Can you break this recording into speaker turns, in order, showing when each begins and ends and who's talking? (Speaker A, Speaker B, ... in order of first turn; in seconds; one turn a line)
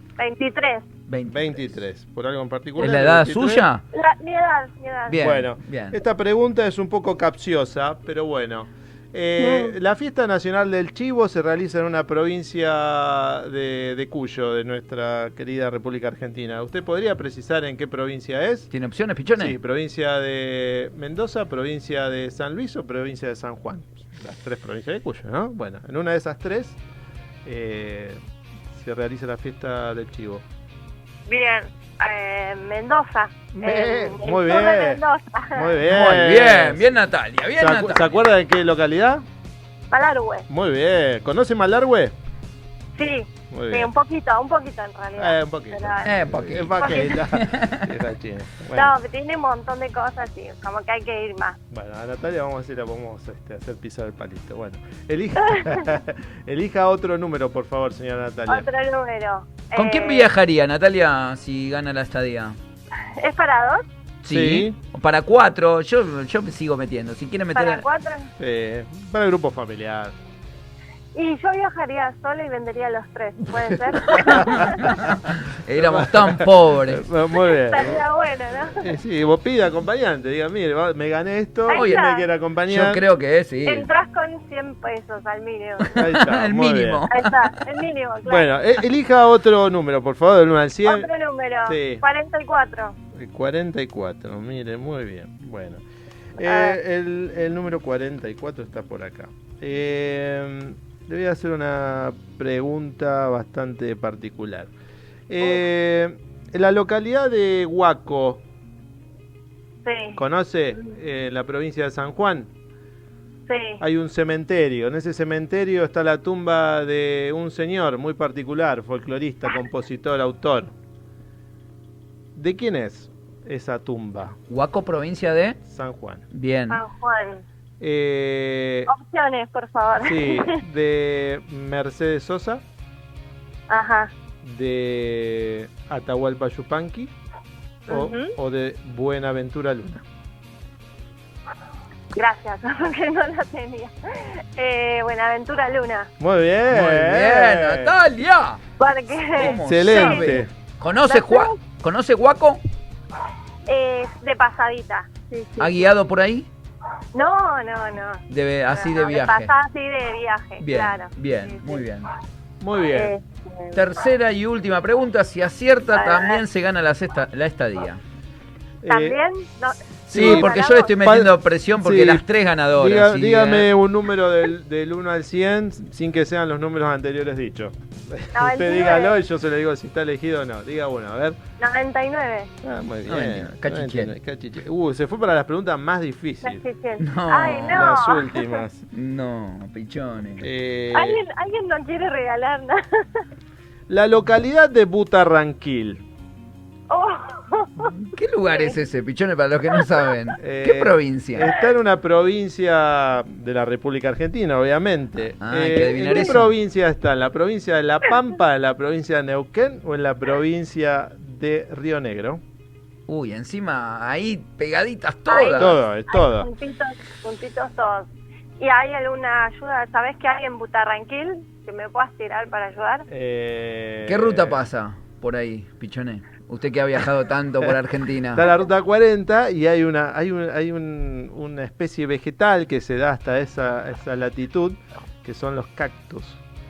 Speaker A: 0.2-0.8
Speaker B: 1.1-1.6
Speaker C: 1.3-3.6
Speaker B: 2.8-3.8
Speaker A: 3.9-5.2
Speaker B: 5.1-6.0
Speaker C: 5.1-18.7
Speaker A: 9.4-9.7
Speaker B: 18.7-19.6
Speaker C: 19.4-26.8
Speaker C: 27.4-28.2
Speaker C: 28.7-30.4
Speaker A: 31.3-35.8
Speaker C: 33.5-35.0
Speaker C: 35.5-36.9
Speaker B: 35.8-38.1
Speaker C: 37.6-39.2
Speaker A: 39.9-40.5
Speaker C: 40.5-42.1
Speaker A: 43.0-46.1
Speaker C: 43.5-43.9
Speaker C: 45.2-48.9
Speaker B: 46.0-47.9
Speaker A: 46.8-47.2
Speaker A: 48.7-51.6
Speaker C: 51.7-58.6
Speaker A: 58.5-60.3
Speaker B: 59.7-62.6
Speaker A: 63.1-63.8
Speaker B: 64.2-67.8
Speaker C: 64.3-64.7
Speaker A: 67.5-68.3
Speaker C: 68.4-70.1
Speaker A: 71.1-75.0
Speaker C: 73.9-75.1
Speaker B: 74.2-77.1
Speaker C: 75.7-78.0
Speaker A: 77.3-78.9
Speaker C: 78.8-83.0
Speaker A: 81.7-82.3
Speaker B: 81.7-82.0
Speaker B: 82.7-83.9
Speaker A: 83.6-86.0
Speaker B: 85.8-87.6
Speaker C: 85.9-87.0
Speaker A: 87.1-88.5
Speaker C: 88.2-91.1
Speaker A: 90.8-93.0
Speaker C: 91.7-92.0
Speaker C: 93.1-95.8
Speaker C: 96.4-104.7
Speaker A: 96.4-96.8
Speaker C: 105.3-108.4
Speaker A: 109.8-110.2
Speaker C: 110.2-112.5
Speaker A: 113.5-113.8
Speaker C: 113.8-120.7
Speaker C: 122.3-124.4
Speaker B: 124.5-125.6
Speaker C: 125.7-126.2
Speaker B: 126.3-126.8
Speaker A: 126.7-127.4
Speaker C: 127.8-128.9
Speaker A: 128.9-130.6
Speaker C: 130.0-132.6
Speaker A: 133.7-134.1
Speaker C: 134.4-137.1
Speaker C: 137.9-140.0
Speaker A: 137.9-138.3
Speaker A: 142.1-146.1
Speaker C: 146.2-147.9
Speaker B: 146.7-148.6
Speaker A: 148.8-150.3
Speaker B: 149.3-152.6
Speaker C: 149.5-150.5
Speaker A: 151.1-151.5
Speaker A: 153.7-155.9
Speaker B: 155.6-156.5
Speaker A: 157.1-161.8
Speaker B: 158.3-159.5
Speaker B: 160.6-162.1
Speaker C: 162.6-163.1
Speaker A: 162.9-163.8
Speaker B: 163.7-168.0
Speaker A: 165.9-166.4
Speaker C: 168.8-169.2
Speaker A: 168.9-170.9
Speaker B: 170.1-173.7
Speaker C: 170.1-172.2
Speaker C: 172.7-181.4
Speaker A: 178.3-179.2
Speaker A: 181.6-182.5
Speaker C: 182.6-186.6
Speaker B: 183.1-184.1
Speaker A: 186.4-188.6
Speaker B: 187.0-187.9
Speaker C: 187.6-188.8
Speaker B: 188.9-190.4
Speaker C: 190.4-191.2
Speaker A: 190.9-193.2
Speaker C: 193.9-196.0
Speaker A: 196.9-197.9
Speaker B: 198.0-201.6
Speaker C: 200.4-212.4
Speaker B: 205.4-206.5
Speaker B: 213.1-215.7
Speaker A: 215.3-223.1
Speaker C: 215.5-216.5
Speaker C: 223.1-224.6
Speaker B: 224.1-228.5
Speaker C: 228.3-236.4